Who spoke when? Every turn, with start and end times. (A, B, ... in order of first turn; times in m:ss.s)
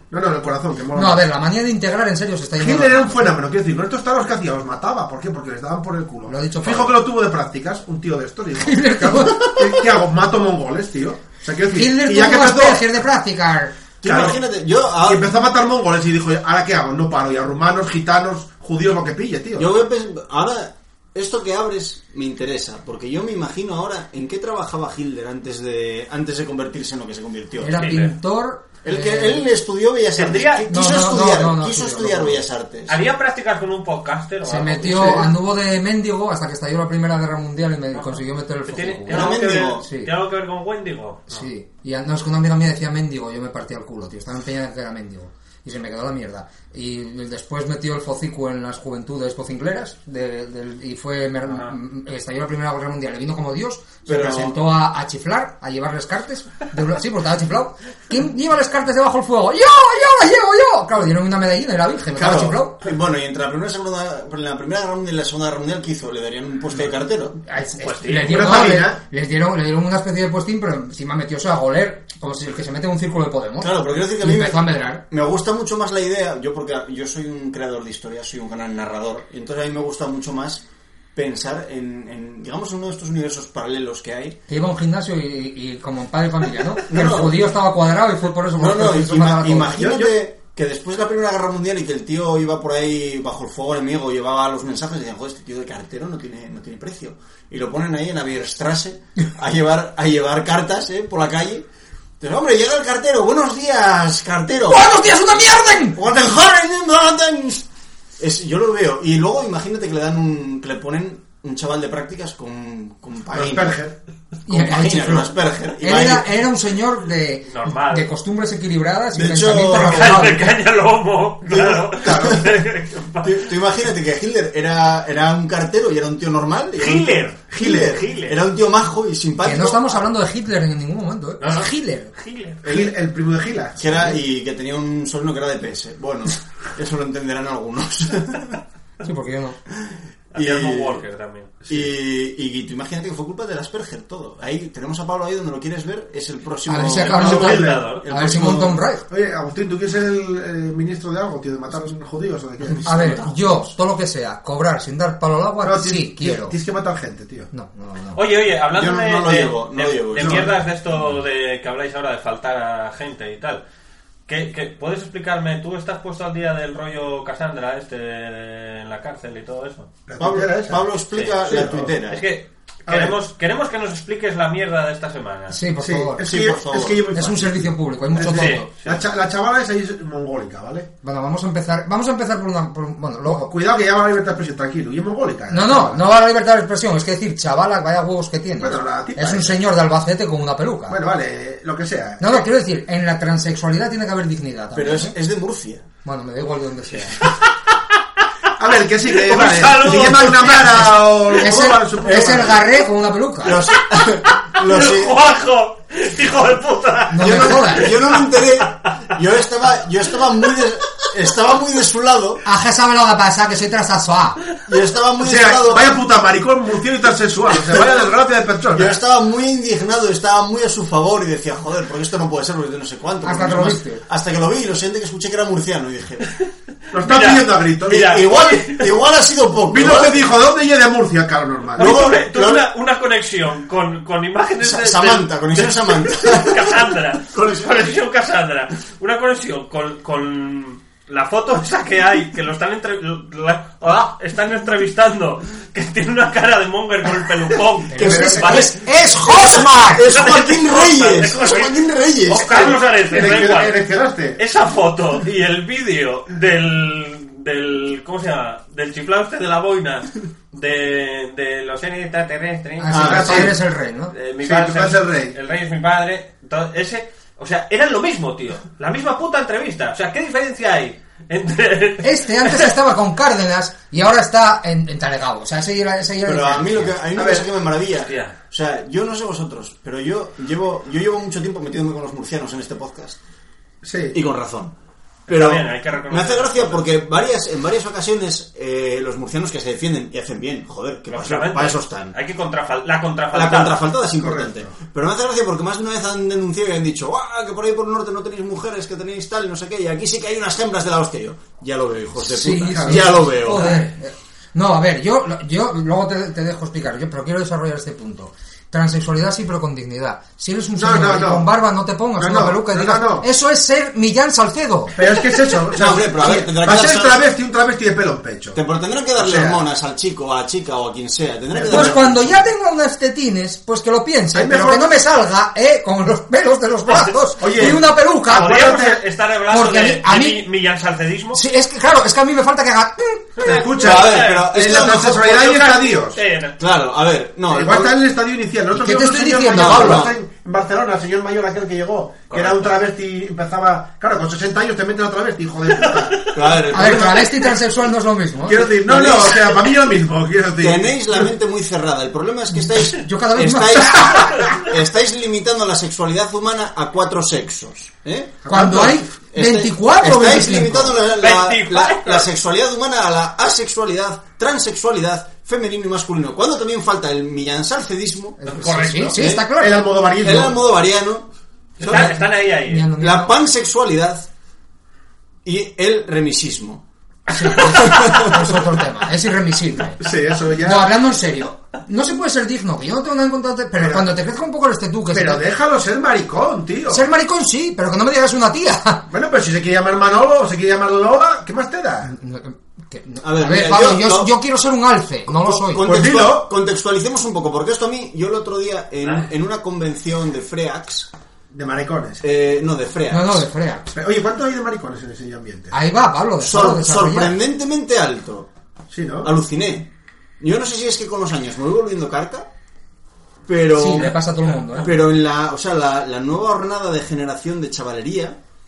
0:00.1-0:01.2 A
0:00.9-0:03.3 B
0:02.6-0:12.9 A
0:06.3-0:07.0 B
0:08.6-0:09.7 B
0:11.7-0:13.7 B
0:14.0-0:15.2 C
0:14.0-0:14.4 A
0:15.0-0:19.7 A
0:19.6-0:27.8 C
0:27.6-0:29.4 B
0:27.8-0:28.1 D
0:28.8-0:33.0 C
0:30.1-0:30.7 D
0:30.7-0:32.4 B
0:32.9-0:35.2 D
0:34.4-0:40.1 B
0:34.9-0:35.3 A
0:37.9-0:41.5 D
0:39.1-0:39.8 C
0:41.3-1:02.8 B
0:51.4-0:51.7 D
0:54.0-0:54.6 C
1:02.1-1:07.4 C
1:07.5-1:15.0 B
1:07.8-1:08.6 D
1:08.3-1:09.0 A
1:13.6-1:20.6 C
1:21.1-1:24.4 C
1:24.5-1:29.8 B
1:26.9-1:27.4 C
1:28.6-1:41.6 C
1:29.7-1:30.1 A
1:42.2-1:44.9 C
1:44.7-1:46.0 B
1:45.9-1:47.6 C
1:48.2-1:53.8 C
1:53.3-1:53.9 A
1:54.5-2:00.5 B
1:54.5-1:56.3 C
1:57.4-1:58.1 D
1:59.1-2:00.4 C
1:59.8-2:03.5 D
2:01.4-2:02.5 C
2:02.0-2:02.5 A
2:03.2-2:10.0 C
2:06.8-2:08.4 D
2:07.5-2:08.0 A
2:09.4-2:12.1 B
2:11.4-2:12.6 D
2:12.6-2:12.9 C
2:12.6-2:14.2 A
2:13.8-2:18.6 C
2:19.0-2:19.6 B
2:19.7-2:21.0 C
2:20.3-2:21.5 D
2:21.7-2:28.8 C
2:26.7-2:29.0 B
2:27.1-2:27.9 A
2:27.1-2:28.1 D
2:29.1-2:32.8 A
2:32.7-2:33.6 C
2:32.8-2:36.5 B
2:35.6-2:37.5 A
2:37.5-2:38.2 B
2:38.1-2:43.6 D
2:38.7-2:40.5 C
2:40.2-2:40.5 A
2:44.3-2:49.9 D
2:50.1-2:50.9 A
2:50.2-2:52.2 C
2:51.1-2:51.4 D
2:51.4-2:51.9 A
2:52.1-2:55.6 D
2:52.9-2:53.2 A
2:55.5-2:56.2 B
2:55.8-3:00.9 A
2:56.2-2:57.1 C
2:57.1-2:58.7 B
2:58.3-2:59.0 D
3:01.0-3:03.5 B
3:03.2-3:06.0 A
3:05.5-3:11.0 B
3:08.6-3:09.6 A
3:10.9-3:12.4 A
3:12.2-3:15.1 B
3:14.7-3:15.8 C
3:16.0-3:17.2 B
3:17.2-3:18.2 D
3:18.6-3:22.6 A
3:19.1-3:20.9 D
3:21.4-3:23.6 B
3:22.0-3:22.6 C
3:23.4-3:25.2 C
3:24.2-3:29.1 D
3:27.1-3:27.9 B
3:27.2-3:32.4 C
3:32.4-3:34.4 B
3:34.7-3:35.9 C
3:35.2-3:39.0 A
3:38.7-3:46.3 C
3:43.2-3:44.0 B
3:46.9-3:48.2 A
3:47.0-3:49.0 D
3:47.9-3:50.3 C
3:49.7-3:52.2 A
3:51.8-3:52.6 C
3:51.8-4:08.8 D
3:54.6-3:56.7 C
3:57.3-3:57.6 C
4:07.9-4:10.1 B
4:08.0-4:08.7 C
4:08.0-4:08.5 A
4:09.3-4:12.7 C
4:09.5-4:13.8 D
4:12.3-4:14.4 A
4:14.4-4:23.2 D
4:22.8-4:24.1 B
4:22.9-4:23.6 C
4:23.0-4:23.5 A
4:24.1-4:32.7 D
4:24.4-4:25.4 A
4:32.0-4:37.0 B
4:36.2-4:43.2 C
4:37.2-4:37.5 A
4:38.1-4:38.4 D
4:43.8-4:44.2 A
4:44.1-4:44.7 C
4:45.3-4:46.9 D
4:45.3-4:52.2 C
4:51.1-4:53.8 D
4:53.3-5:03.8 C
4:54.2-4:54.8 A
5:02.2-5:14.9 B
5:02.7-5:03.6 A
5:10.8-5:11.5 A
5:12.2-5:13.3 A
5:14.9-5:18.6 A
5:15.7-5:17.2 C
5:18.5-5:22.4 C
5:19.2-5:19.6 A
5:21.5-5:22.0 A
5:21.7-5:28.6 B
5:24.3-5:24.9 A
5:26.9-5:27.2 D
5:27.4-5:29.0 A
5:28.3-5:31.4 D
5:29.5-5:30.4 B
5:31.3-5:33.6 B
5:33.4-5:34.5 D
5:33.4-5:36.2 A
5:33.8-5:35.4 C
5:35.3-5:36.6 D
5:36.6-5:37.9 C
5:37.5-5:46.3 A
5:38.7-5:40.1 B
5:39.5-5:40.1 C
5:42.3-5:42.8 D
5:45.7-5:46.6 D
5:46.3-5:47.4 C
5:46.7-5:48.6 B
5:48.5-5:51.0 A
5:48.8-5:49.5 C
5:50.6-6:08.4 C
5:52.5-5:54.5 B
5:58.4-5:59.0 A
5:58.5-6:01.0 B
6:01.1-6:02.3 D
6:08.4-6:09.8 B
6:08.5-6:09.2 D
6:09.1-6:09.5 C
6:09.6-6:10.6 A
6:10.2-6:11.3 C
6:11.8-6:12.1 C
6:11.8-6:12.9 D
6:11.9-6:13.4 B
6:13.0-6:14.3 C
6:15.4-6:16.8 C
6:17.3-6:20.0 B
6:17.6-6:18.6 C
6:20.0-6:20.9 A
6:20.6-6:25.4 B
6:23.8-6:24.1 A
6:25.1-6:27.1 A
6:26.9-6:29.0 B
6:29.1-6:32.1 A
6:32.1-6:35.9 B
6:33.2-6:34.3 C
6:35.3-6:41.1 C
6:35.8-6:36.5 A
6:39.0-6:39.3 D
6:41.5-6:42.2 A
6:42.2-6:43.4 C
6:43.1-6:43.8 B
6:43.9-6:45.7 A
6:45.7-6:47.4 B
6:46.4-6:48.5 C
6:48.9-6:49.3 A
6:49.2-6:49.9 C
6:50.4-6:52.5 C
6:53.4-6:54.2 C
6:53.7-6:54.9 B
6:54.8-6:58.4 C